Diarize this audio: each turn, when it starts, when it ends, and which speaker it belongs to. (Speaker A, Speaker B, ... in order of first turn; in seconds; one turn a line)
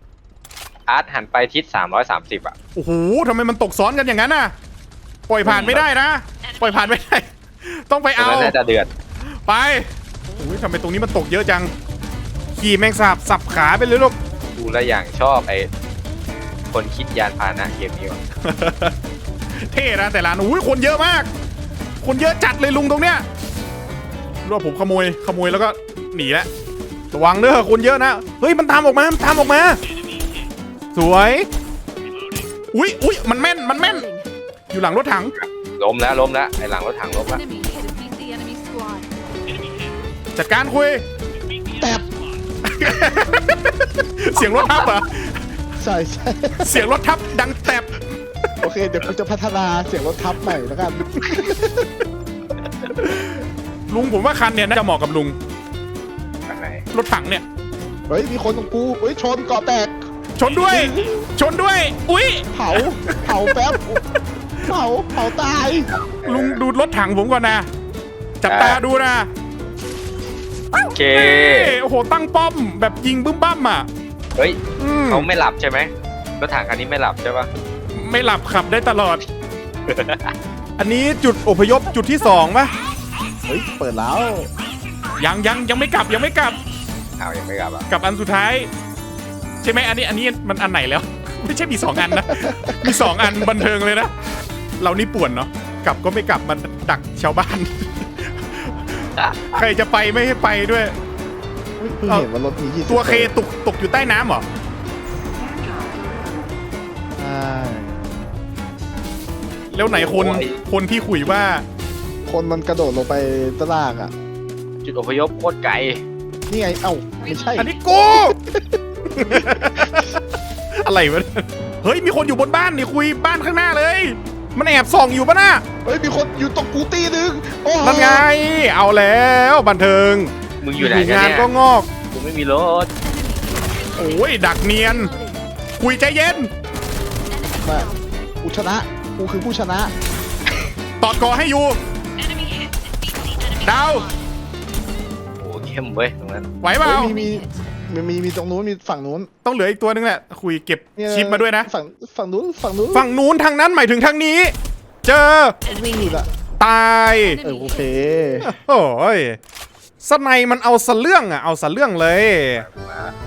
Speaker A: 0.9-2.5
Speaker B: 2.8-4.5
Speaker B: 5.3-8.6
Speaker A: 5.4-5.8
Speaker A: 8.2-8.9
Speaker B: 9.5-11.7
Speaker B: 12.6-14.2
Speaker A: 14.6-15.7
Speaker A: 16.7-18.2
Speaker B: 18.4-18.9
Speaker B: 19.6-21.3
Speaker B: 22.0-23.2
Speaker B: 24.4-26.5
Speaker B: 27.1-29.8
Speaker B: 30.9-31.5
Speaker B: 32.7-34.1
Speaker C: 33.8-34.3
Speaker B: 34.7-35.3
Speaker A: 35.8-37.4
Speaker C: 37.3-39.1
Speaker B: 40.4-41.0
Speaker D: 41.8-42.1
Speaker B: 42.6-45.4
Speaker D: 45.8-46.9
Speaker B: 46.6-48.0
Speaker D: 48.6-51.9
Speaker B: 51.1-51.5
Speaker B: 53.0-53.4
Speaker B: 53.9-55.4
Speaker A: 56.5-56.8
Speaker B: 56.9-57.4
Speaker D: 58.1-60.0
Speaker B: 60.4-63.5
Speaker D: 60.6-61.2
Speaker D: 62.5-64.0
Speaker D: 64.7-65.9
Speaker A: 65.8-66.6
Speaker B: 66.2-67.7
Speaker B: 68.4-69.3
Speaker A: 68.5-68.8
Speaker B: 70.8-73.9
Speaker A: 70.9-71.8
Speaker A: 74.3-77.5
Speaker B: 74.8-75.3
Speaker B: 77.9-79.2
Speaker A: 79.9-80.3
Speaker B: 80.8-82.7
Speaker D: 83.5-84.5
Speaker B: 85.2-86.6
Speaker A: 87.2-87.9
Speaker B: 87.9-88.7
Speaker B: 89.6-94.2
Speaker D: 92.0-93.5
Speaker B: 94.8-101.0
Speaker A: 99.2-99.4
Speaker D: 101.8-103.3
Speaker B: 102.9-104.5
Speaker D: 107.2-108.0
Speaker B: 109.7-111.6
Speaker A: 109.8-110.6
Speaker D: 112.3-114.1
Speaker A: 114.8-116.0
Speaker D: 116.5-120.1
Speaker B: 117.6-118.3
Speaker B: 119.2-120.2
Speaker B: 120.8-125.6
Speaker D: 125.8-128.3
Speaker B: 127.8-131.9
Speaker A: 130.6-131.5
Speaker A: 132.1-132.9
Speaker C: 133.0-135.4
Speaker B: 133.9-135.1
Speaker B: 135.8-136.5
Speaker C: 137.3-138.0
Speaker D: 137.6-137.9
Speaker D: 138.4-139.9
Speaker B: 141.0-141.8
Speaker C: 142.3-144.1
Speaker B: 143.6-144.1
Speaker A: 145.4-146.5
Speaker B: 146.6-147.1
Speaker D: 146.8-149.3
Speaker C: 147.1-147.5
Speaker B: 149.4-151.7
Speaker D: 151.0-153.1
Speaker B: 152.9-155.6
Speaker D: 155.7-156.3
Speaker B: 156.6-157.4
Speaker C: 157.2-157.9
Speaker D: 157.4-158.5
Speaker B: 158.4-159.4
Speaker B: 160.0-162.6
Speaker A: 162.6-163.1